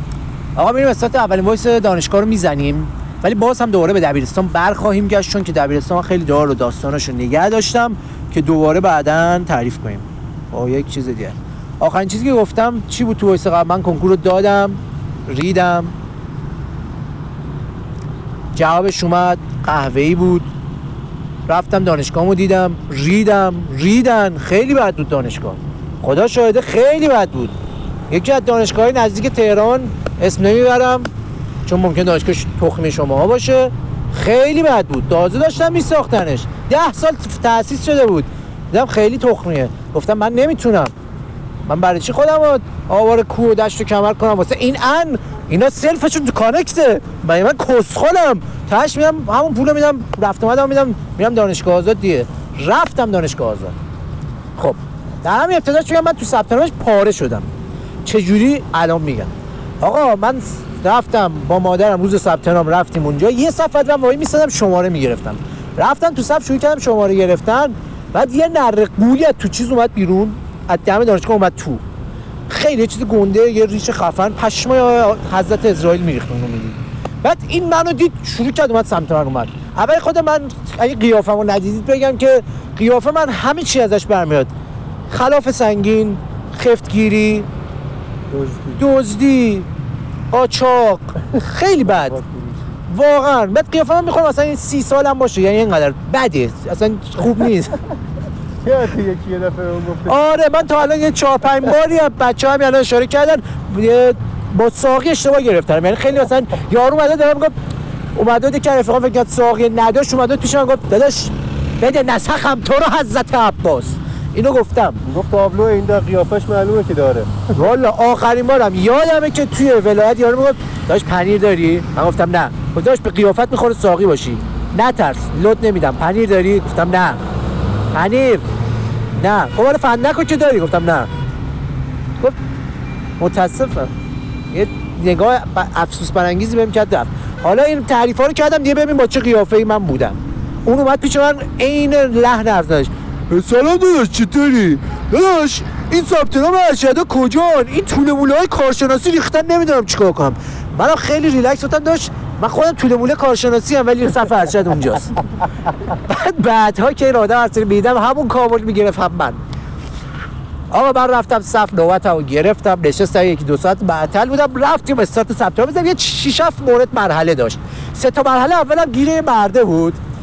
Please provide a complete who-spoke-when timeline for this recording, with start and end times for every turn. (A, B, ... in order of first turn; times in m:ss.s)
0:00.6-0:15.9 A
0:18.5-0:20.5 A
0:21.5-0:27.5 A
0:28.1-0:31.1 A
0:31.6-0:40.9 A
0:41.6-0:53.7 A
0:54.6-0:57.5 A
0:58.0-1:11.8 A
1:12.5-1:24.5 A
1:25.1-1:27.5 A
1:28.3-1:28.8 B
1:28.8-1:29.7 A
1:30.3-1:32.2 A
1:31.9-1:32.6 B
1:32.9-1:37.8 A
1:38.6-1:40.2 B
1:40.0-1:47.5 A
1:48.1-1:55.0 A
1:55.0-1:57.3 B
1:57.5-2:07.2 A
2:07.9-2:08.4 A
2:09.1-2:11.1 A
2:13.2-2:13.9 A
2:14.5-2:35.2 A
2:35.8-2:39.4 A
2:40.7-2:50.0 A